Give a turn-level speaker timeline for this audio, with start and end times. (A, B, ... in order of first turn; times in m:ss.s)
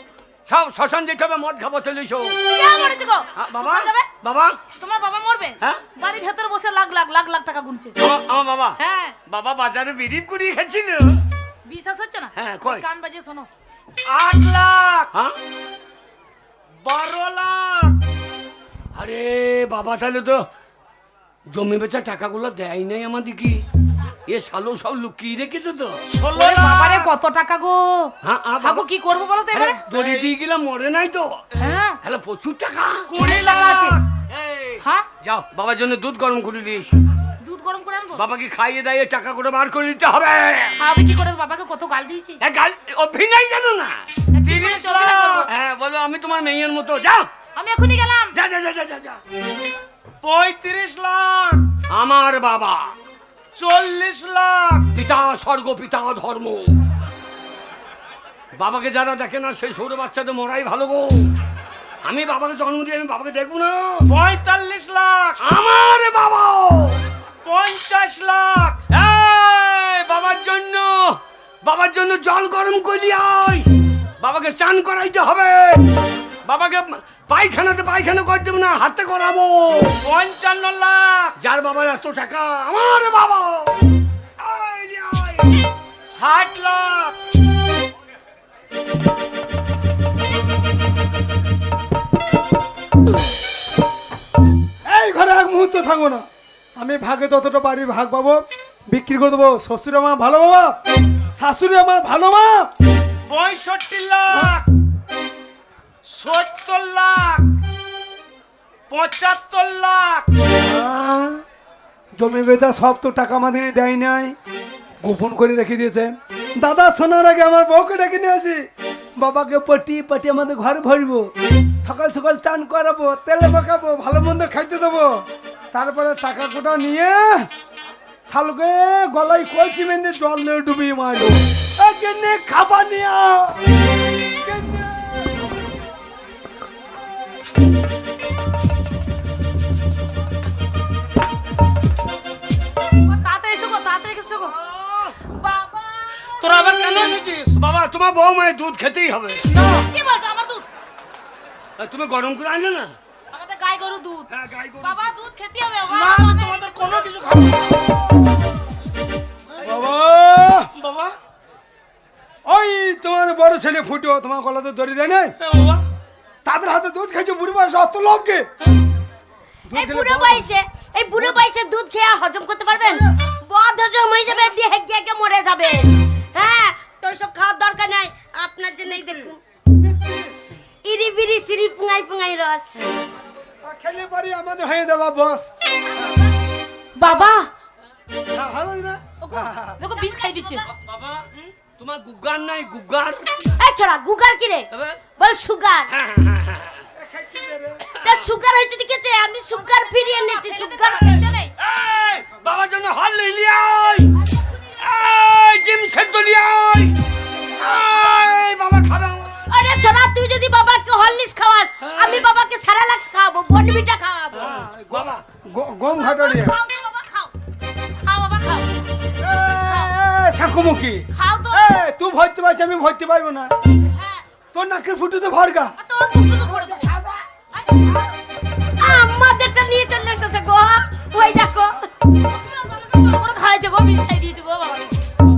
0:00.5-0:02.4 A
0:02.5-0:04.1 B
0:03.4-0:04.6 A
0:04.7-0:07.9 B
0:08.0-0:11.2 A
0:08.8-0:09.2 B
0:11.6-0:13.5 B
0:12.3-0:12.8 A
0:14.0-0:15.1 C
0:16.8-0:18.0 C
0:19.0-0:20.4 A
0:21.5-0:23.6 A
0:24.3-0:26.0 A
0:26.1-0:27.1 C
0:26.3-0:29.8 B
0:28.2-0:28.8 A
0:29.5-0:31.4 A
0:29.9-0:30.3 C
0:31.6-0:32.0 B
0:32.0-0:33.1 A
0:33.1-0:34.0 C
0:33.2-0:34.0 B
0:34.2-0:36.9 A
0:34.8-0:35.0 B
0:37.4-0:38.2 B
0:38.1-0:40.8 A
0:40.8-0:42.4 B
0:42.4-0:44.1 A
0:44.3-0:45.5 B
0:44.4-0:45.5 C
0:45.4-0:47.3 A
0:47.6-0:48.3 B
0:48.3-0:49.2 A
0:50.2-0:51.7 C
0:51.9-0:52.9 A
0:53.6-0:54.9 C
0:54.9-0:56.8 A
0:58.6-1:01.3 A
1:02.0-1:04.1 A
1:04.1-1:05.4 C
1:05.4-1:07.0 A
1:07.4-1:08.8 C
1:08.9-1:13.7 A
1:14.2-1:15.9 A
1:16.4-1:20.0 A
1:20.0-1:21.3 C
1:21.4-1:23.7 A
1:24.4-1:25.6 A
1:26.1-1:27.2 C
1:34.8-1:36.2 D
1:36.8-1:38.4 D
1:38.9-1:40.8 D
1:41.4-1:42.7 D
1:43.3-1:44.7 C
1:46.2-1:47.4 C
1:48.9-1:50.3 C
1:50.6-1:51.4 D
1:52.2-1:54.3 D
1:55.0-1:58.6 D
1:59.2-2:05.2 D
2:05.7-2:07.5 D
2:08.3-2:13.8 D
2:14.4-2:15.5 D
2:23.0-2:24.5 B
2:24.5-2:25.2 A
2:25.2-2:26.6 B
2:26.4-2:27.5 C
2:27.6-2:29.5 A
2:29.5-2:30.6 B
2:31.8-2:32.9 A
2:33.3-2:34.3 B
2:34.3-2:35.0 A
2:34.8-2:37.1 B
2:35.9-2:38.0 C
2:39.6-2:40.7 D
2:40.7-2:41.1 C
2:42.4-2:45.3 D
2:45.4-2:45.8 C
2:46.4-2:48.5 D
2:49.7-2:50.5 D
2:49.7-2:59.4 E
2:51.2-2:51.4 D
2:52.7-2:53.1 D
2:58.9-2:59.3 D
2:59.8-3:00.4 D
3:00.8-3:02.7 E
3:03.6-3:05.5 D
3:07.0-3:07.5 B
3:08.3-3:09.8 D
3:09.2-3:10.6 B
3:10.6-3:11.2 A
3:11.8-3:13.5 A
3:13.6-3:15.9 E
3:14.7-3:15.0 A
3:15.9-3:16.8 A
3:17.0-3:17.8 D
3:17.9-3:21.2 E
3:18.0-3:18.2 A
3:19.6-3:21.5 B
3:21.6-3:24.2 A
3:24.8-3:26.9 A
3:27.6-3:29.5 A
3:29.5-3:34.6 E
3:34.4-3:36.6 D
3:34.9-3:35.2 A
3:36.0-3:37.3 B
3:38.0-3:38.8 B
3:39.2-3:43.5 D
3:41.1-3:41.7 B
3:43.8-3:44.2 B
3:44.5-3:45.7 D
3:45.8-3:47.0 B
3:47.5-3:48.1 B
3:48.8-3:51.9 E
3:52.3-3:55.0 B